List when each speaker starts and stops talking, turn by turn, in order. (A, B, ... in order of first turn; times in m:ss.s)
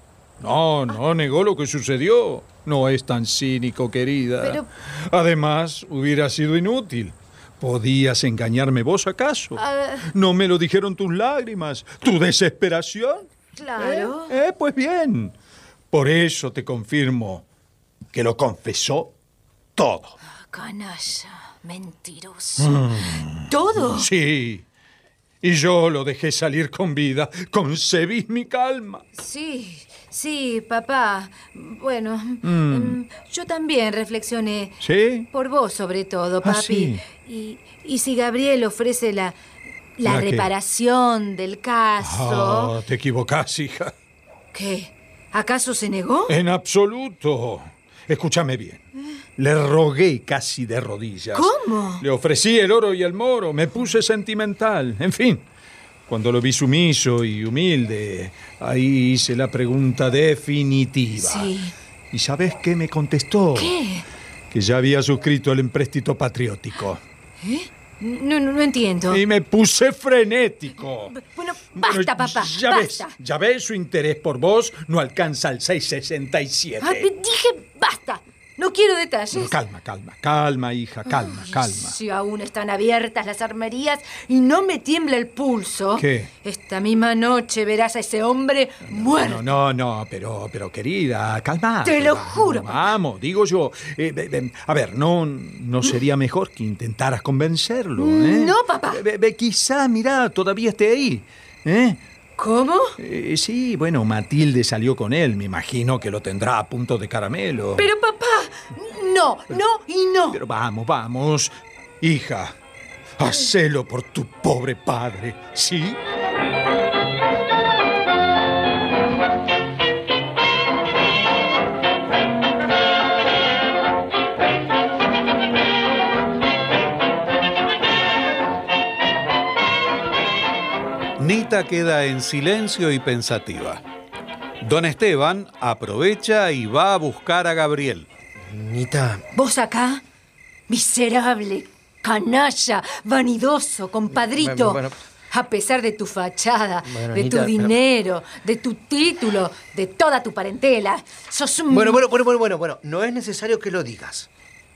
0:00.4-0:15.3 A
0:04.4-0:04.7 B
0:09.6-0:10.0 B
0:13.6-0:14.3 B
0:15.9-0:17.4 A
0:18.1-0:19.1 A
0:19.8-0:20.2 A
0:20.5-0:22.8 B
0:22.6-0:24.6 A
0:23.5-0:24.1 B
0:25.4-0:29.0 A
0:29.2-0:34.8 B
0:32.4-0:33.0 A
0:34.8-0:35.3 A
0:35.3-0:39.4 B
0:36.4-0:37.0 A
0:40.0-0:42.7 B
0:40.0-0:40.5 A
0:42.0-0:43.9 A
0:44.5-0:46.4 B
0:46.3-0:48.8 A
0:49.4-0:55.4 A
0:51.3-0:52.0 B
0:56.1-1:01.5 A
1:01.2-1:01.7 B
1:02.1-1:03.7 A
1:03.6-1:04.1 B
1:04.5-1:07.0 A
1:07.4-1:09.2 B
1:09.1-1:11.2 A
1:11.2-1:13.1 B
1:11.8-1:17.1 A
1:16.8-1:19.6 B
1:19.3-1:22.0 A
1:21.1-1:29.5 B
1:26.0-1:26.3 A
1:28.9-1:42.0 A
1:31.8-1:32.8 B
1:38.0-1:39.0 B
1:42.4-1:43.0 B
1:43.0-1:47.9 A
1:47.8-1:50.4 B
1:50.3-1:52.6 A
1:53.2-1:56.0 A
2:11.2-2:13.8 C
2:14.6-2:18.1 C
2:18.4-2:19.2 D
2:19.3-2:20.0 B
2:20.7-2:32.0 B
2:24.3-2:25.0 D
2:26.9-2:27.7 D
2:31.7-2:34.3 D